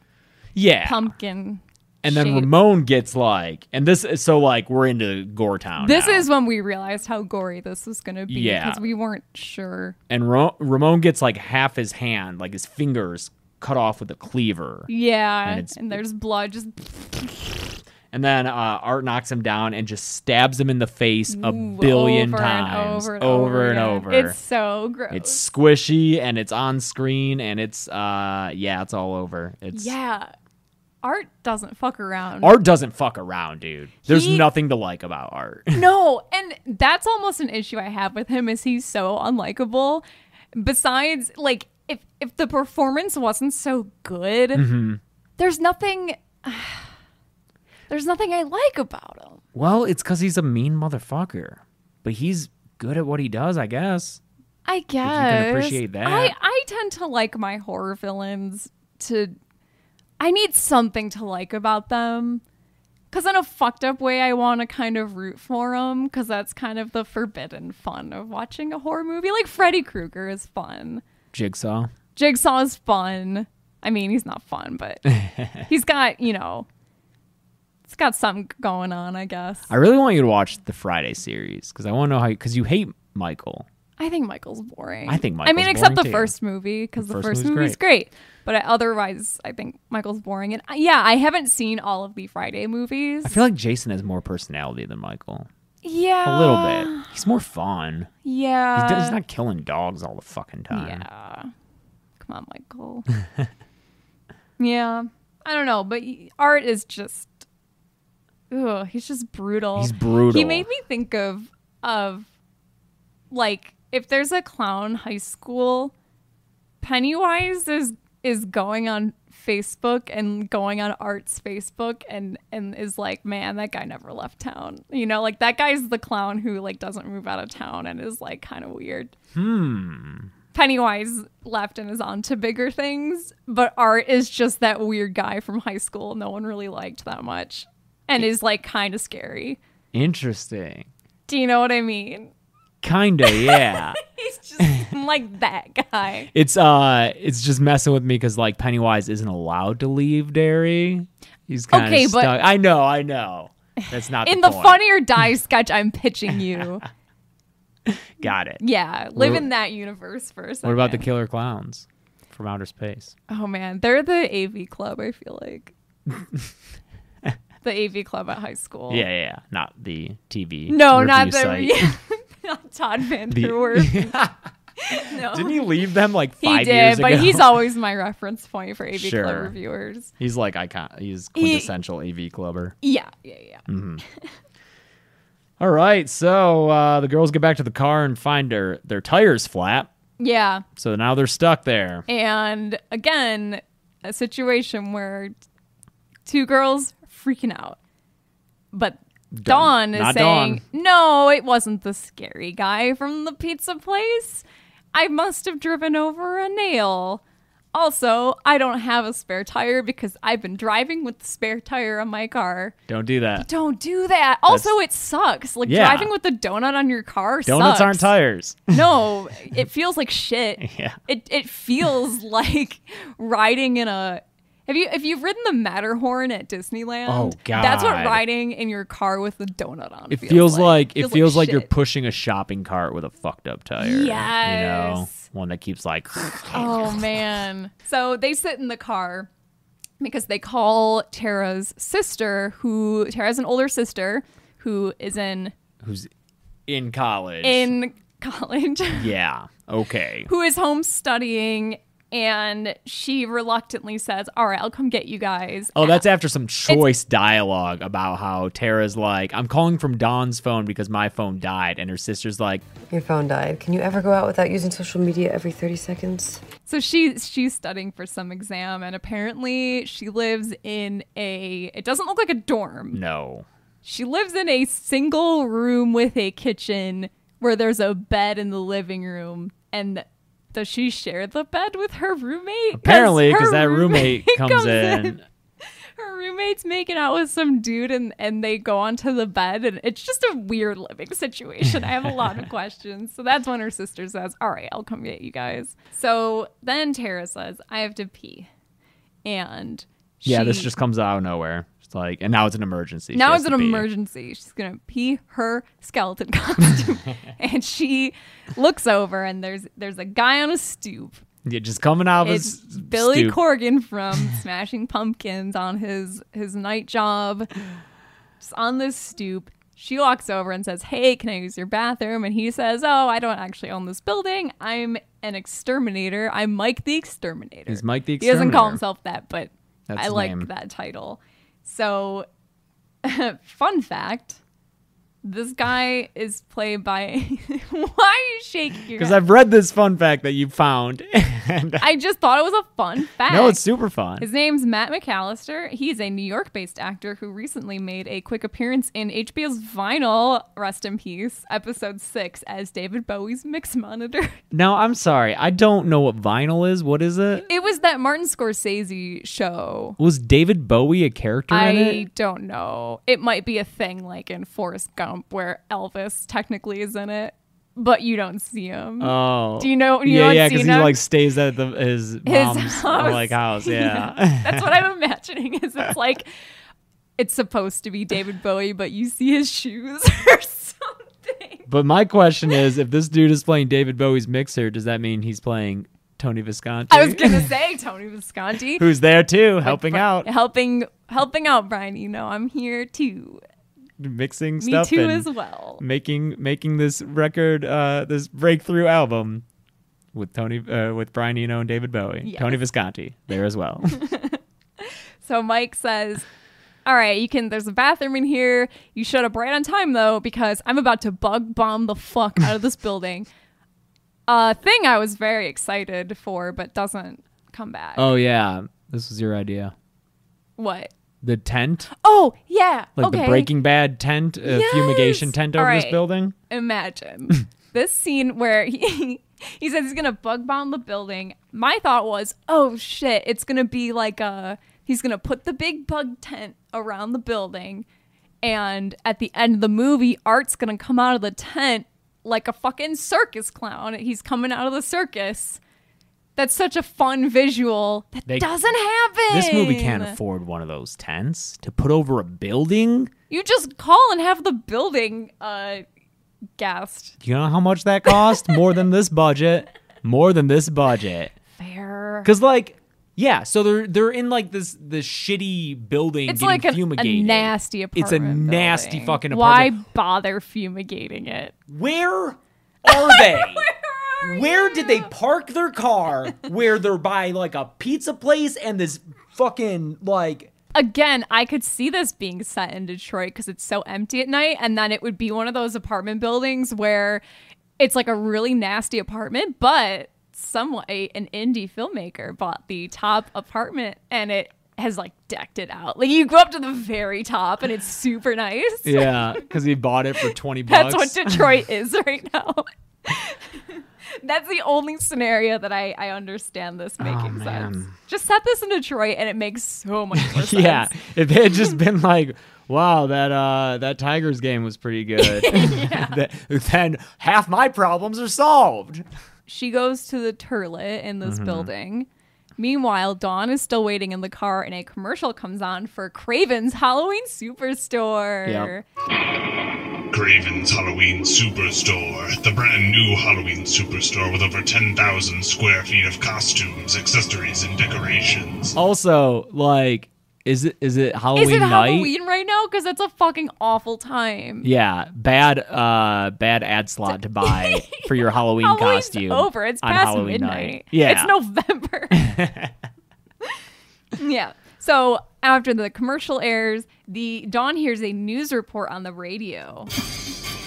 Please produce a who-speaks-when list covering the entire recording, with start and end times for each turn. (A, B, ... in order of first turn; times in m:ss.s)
0:00.5-0:01.1 A
0:00.8-0:02.5 B
0:02.0-0:06.3 A
0:05.8-0:10.0 B
0:08.3-0:08.8 A
0:10.1-0:14.9 A
0:14.9-0:17.6 B
0:15.4-0:16.0 A
0:18.1-0:24.4 A
0:21.3-0:25.4 B
0:25.1-0:29.9 A
0:29.7-0:30.3 B
0:31.0-0:32.6 B
0:32.4-0:35.8 A
0:34.0-0:34.5 B
0:35.7-0:44.6 B
0:44.5-0:45.0 A
0:45.4-0:46.9 B
0:47.9-0:49.4 B
0:49.5-0:54.2 A
0:54.6-0:59.4 B
0:55.0-0:56.3 A
1:00.2-1:02.4 B
1:03.1-1:11.0 B
1:11.3-1:11.9 A
1:12.2-1:16.7 B
1:15.2-1:15.6 A
1:17.9-1:19.7 B
1:19.7-1:23.7 A
1:24.0-1:33.4 B
1:25.1-1:26.3 A
1:27.0-1:27.8 A
1:33.2-1:35.5 A
1:35.8-1:37.1 B
1:36.2-1:38.1 A
1:38.2-1:39.2 B
1:38.7-1:41.0 A
1:40.7-1:41.5 B
1:42.2-1:43.1 B
1:44.6-1:47.4 B
1:48.5-1:52.3 B
1:49.8-1:50.7 A
1:53.3-1:55.9 B
1:56.8-2:09.1 B
2:09.3-2:10.3 A
2:10.5-2:19.6 B
2:19.9-2:20.9 A
2:21.3-2:22.3 B
2:22.8-2:24.0 A
2:23.2-2:26.3 B
2:24.6-2:24.9 A
2:26.3-2:34.8 A
2:31.7-2:32.3 B
2:33.8-2:36.8 B
2:37.8-2:38.6 A
2:38.6-2:41.0 B
2:39.2-2:39.4 A
2:40.6-2:43.1 A
2:43.3-2:45.7 B
2:46.2-2:46.4 A
2:47.6-2:49.0 B
2:48.9-2:51.9 A
2:50.7-2:54.2 B
2:53.3-2:54.4 A
2:54.8-2:55.6 B
2:55.0-2:57.6 A
2:56.4-3:00.1 B
2:58.9-2:59.6 A
3:00.2-3:02.7 A
3:01.4-3:01.7 B
3:02.8-3:04.3 B
3:03.7-3:04.0 A
3:05.6-3:09.9 A
3:10.2-3:10.6 B
3:10.8-3:12.0 A
3:12.1-3:15.3 B
3:16.2-3:17.8 B
3:18.7-3:27.2 B
3:19.3-3:20.6 A
3:27.7-3:32.8 B
3:32.9-3:33.5 A
3:33.4-3:38.1 B
3:34.5-3:34.7 A
3:35.6-3:36.1 A
3:37.4-3:38.8 A
3:38.7-3:51.7 B
3:40.6-3:41.0 A
3:47.0-3:48.2 A
3:50.1-3:57.2 A
3:53.8-3:55.2 B
3:56.5-3:59.3 B
4:00.0-4:05.5 B
4:05.8-4:06.1 A
4:06.7-4:07.7 A
4:07.4-4:09.1 B
4:08.9-4:10.3 A
4:10.3-4:16.0 B
4:15.7-4:22.6 A
4:22.9-4:26.4 C
4:26.7-4:33.0 B
4:32.9-4:33.4 A
4:33.8-4:45.2 B
4:42.7-4:45.2 A
4:46.0-4:58.5 B
4:59.2-5:00.7 B
5:00.2-5:03.9 A
5:03.1-5:11.2 B
5:11.4-5:13.4 A
5:12.2-5:17.5 B
5:18.4-5:32.3 B
5:27.7-5:28.8 A
5:29.9-5:30.5 A
5:33.0-5:34.4 B
5:35.2-5:39.2 B
5:38.9-5:41.8 A
5:41.8-5:43.6 B
5:43.2-5:44.3 A
5:44.2-5:54.3 B
5:54.5-5:57.4 A
5:57.4-6:00.0 B
6:00.0-6:02.0 A
6:01.5-6:11.0 B
6:09.0-6:14.8 A
6:12.2-6:16.3 B
6:17.2-6:21.7 B
6:21.7-6:27.5 A
6:26.9-6:28.9 B
6:28.8-6:30.3 A
6:29.6-6:33.4 B
6:34.0-6:39.4 A
6:34.6-6:35.8 B
6:40.1-6:44.0 A
6:42.2-6:42.6 B
6:43.9-6:46.2 B
6:46.8-6:53.3 B
6:54.3-6:58.1 B
6:58.0-6:59.7 A
7:00.6-7:00.9 B
7:01.2-7:01.9 A
7:02.0-7:03.5 B
7:03.0-7:06.3 A
7:04.4-7:17.8 B
7:18.4-7:25.6 B
7:26.4-7:30.2 B
7:28.2-7:28.5 A
7:29.3-7:33.1 A
7:33.3-7:35.8 B
7:36.6-7:37.2 B
7:37.2-7:41.3 A
7:38.1-7:38.6 B
7:41.6-7:42.3 B
7:42.2-7:49.8 A
7:46.3-7:51.5 B
7:51.7-7:53.7 A
7:52.9-7:55.1 B
7:54.2-8:00.5 A
8:00.7-8:07.2 B
8:07.8-8:19.5 B
8:18.8-8:21.5 A
8:20.7-8:31.0 B
8:27.0-8:27.9 A
8:30.1-8:39.0 A
8:35.2-8:36.2 B
8:39.5-8:42.1 B
8:41.2-8:41.7 A
8:42.6-8:48.8 B
8:48.4-8:48.7 A
8:50.1-8:58.7 D
8:58.7-9:02.1 A
9:01.3-9:04.7 B
9:04.6-9:11.3 A
9:07.1-9:12.3 B
9:12.1-9:12.7 A
9:14.2-9:19.9 B